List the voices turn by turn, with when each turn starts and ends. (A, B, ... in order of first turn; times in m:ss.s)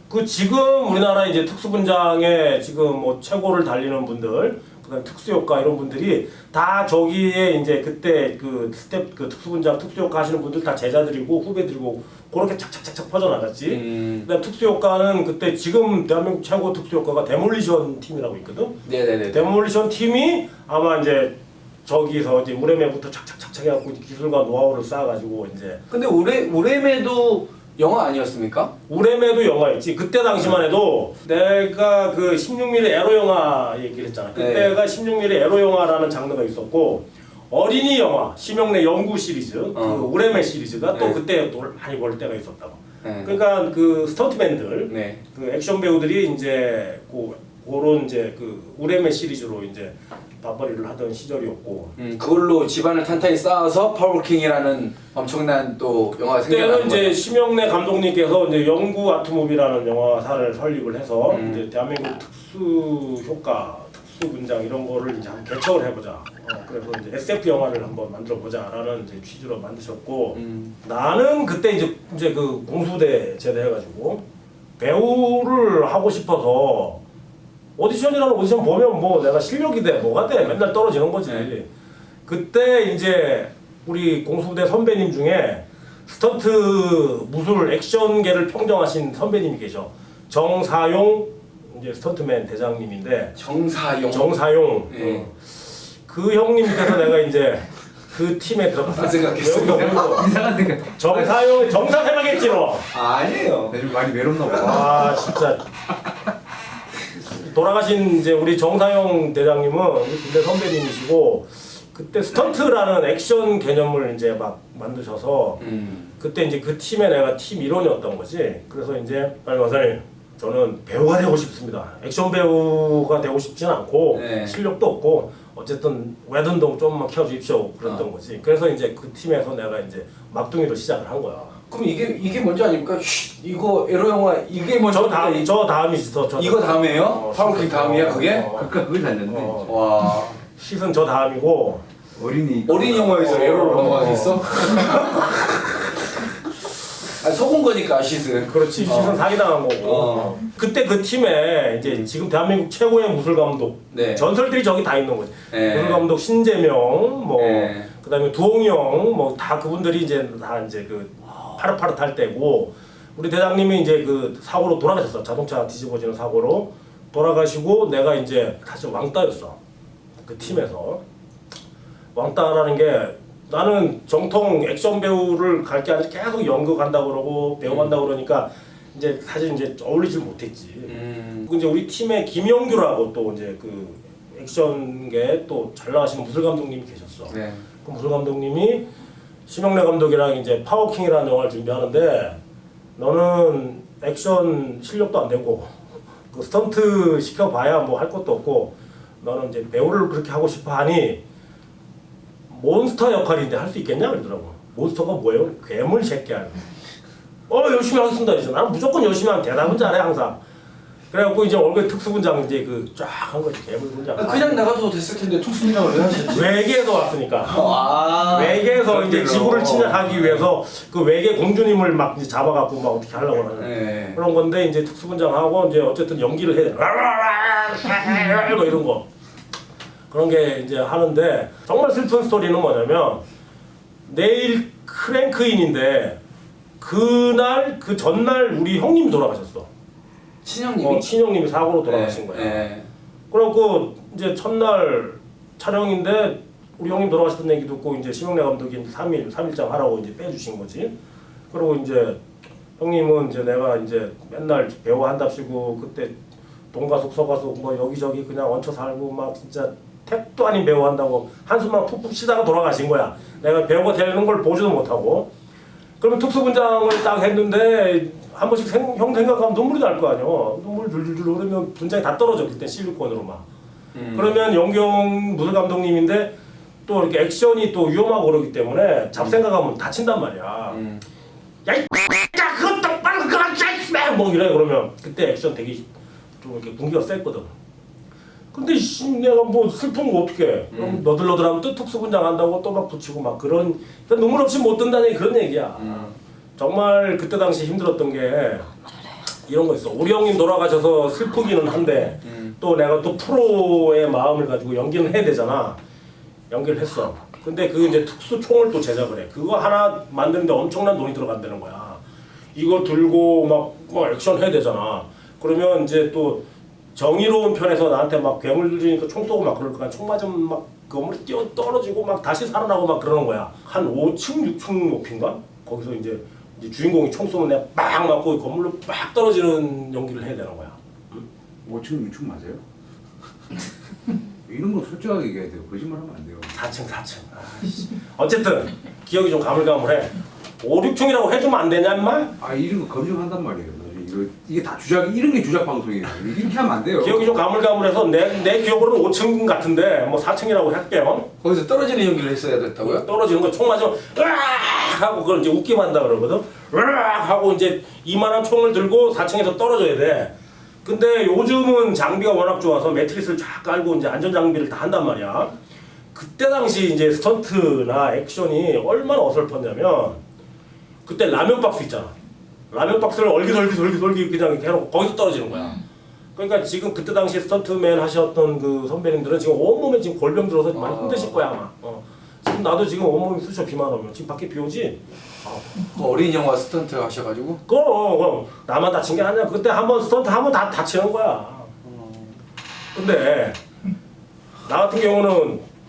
0:00.1-0:25.8 A
0:13.7-0:14.3 B
0:18.8-0:19.5 B
0:25.9-0:28.7 B
0:28.9-0:51.9 A
0:34.4-0:34.8 B
0:39.8-0:40.1 B
0:40.9-0:41.2 B
0:43.0-0:43.4 B
0:44.9-0:45.2 B
0:52.0-0:57.2 B
0:56.5-1:14.2 A
1:01.3-1:01.7 B
1:10.3-1:10.8 B
1:14.8-1:17.0 A
1:17.8-1:21.7 A
1:22.3-1:33.4 A
1:33.4-1:35.2 B
1:34.1-1:40.3 A
1:38.9-1:40.2 B
1:39.4-1:41.3 C
1:41.0-1:42.9 A
1:42.9-1:43.8 B
1:43.7-1:45.2 C
1:44.5-1:45.6 A
1:47.2-1:55.6 A
1:55.6-1:56.1 B
1:56.2-2:11.6 A
2:04.1-2:04.6 B
2:11.7-2:15.5 B
2:14.9-2:18.7 A
2:16.4-2:18.5 B
2:18.4-2:19.7 C
2:19.3-2:19.7 A
2:19.6-2:20.4 B
2:20.6-2:21.8 A
2:22.2-2:23.3 C
2:22.7-2:26.5 B
2:23.1-2:24.5 A
2:27.0-2:30.4 B
2:28.5-2:49.6 A
2:33.9-2:34.3 B
2:35.5-2:36.1 B
2:37.4-2:37.9 B
2:50.2-2:51.0 A
2:52.1-3:08.9 A
2:57.7-2:57.9 B
3:00.9-3:01.5 B
3:07.3-3:07.6 B
3:09.5-3:12.4 A
3:13.0-3:15.7 A
3:16.3-3:21.2 A
3:22.5-3:26.6 A
3:27.5-3:30.4 A
3:31.1-3:34.6 A
3:34.2-3:36.5 B
3:36.3-3:37.6 A
3:37.5-3:40.5 B
3:38.3-3:49.1 A
3:43.6-3:44.2 B
3:50.1-3:53.2 A
3:54.1-3:56.2 A
3:56.8-3:59.7 A
4:00.4-4:01.1 B
4:00.8-4:02.6 A
4:01.8-4:02.9 B
4:03.3-4:11.0 A
4:11.5-4:12.2 A
4:12.8-4:16.2 A
4:16.7-4:25.3 A
4:26.0-4:33.5 A
4:33.9-4:34.5 B
4:34.1-4:36.3 A
4:36.9-4:40.8 A
4:40.7-4:41.0 B
4:41.7-4:45.9 A
4:46.4-4:47.5 A
4:48.5-4:58.7 A
4:50.7-4:51.0 B
4:55.8-4:56.2 B
4:59.4-5:05.8 A
5:02.2-5:02.6 B
5:06.5-5:12.0 A
5:12.5-5:16.4 A
5:17.0-5:31.2 A
5:31.6-5:32.6 C
5:34.5-5:36.6 C
5:36.5-5:42.4 A
5:42.4-5:47.4 C
5:47.0-5:51.3 A
5:51.4-5:53.0 B
5:52.8-6:05.5 A
6:06.1-6:10.2 A
6:11.0-6:12.2 A
6:12.7-6:15.8 A
6:16.4-6:25.7 A
6:20.7-6:21.4 B
6:25.8-6:27.6 B
6:27.7-6:31.7 A
6:31.8-6:32.3 B
6:32.9-6:33.6 A
6:34.6-6:35.6 A